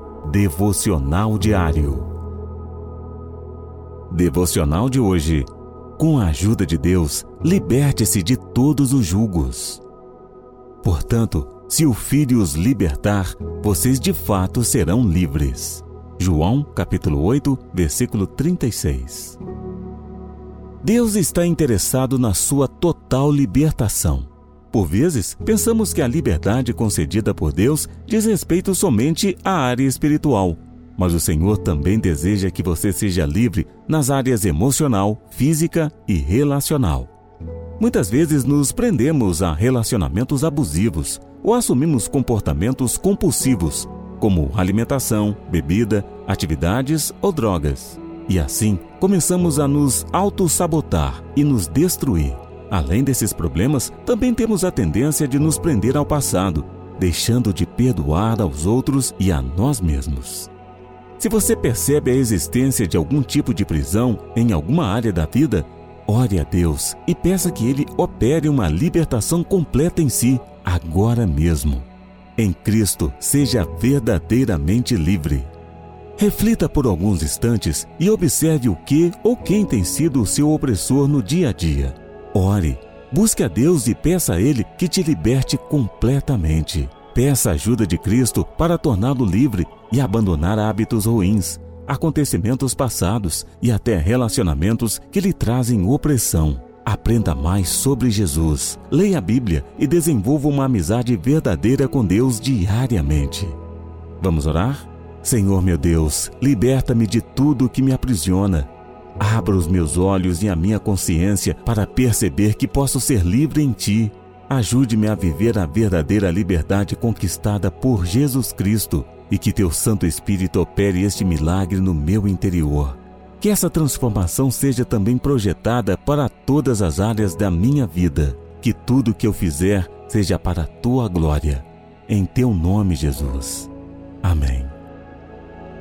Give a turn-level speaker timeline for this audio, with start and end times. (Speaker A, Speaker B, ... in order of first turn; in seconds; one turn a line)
Speaker A: 0.2-2.1
Speaker A: 4.1-9.8
Speaker A: 10.8-19.4
Speaker A: 20.8-37.1
Speaker A: 37.8-60.5
Speaker A: 61.2-75.5
Speaker A: 76.2-103.6
Speaker A: 104.2-133.7
Speaker A: 134.2-134.7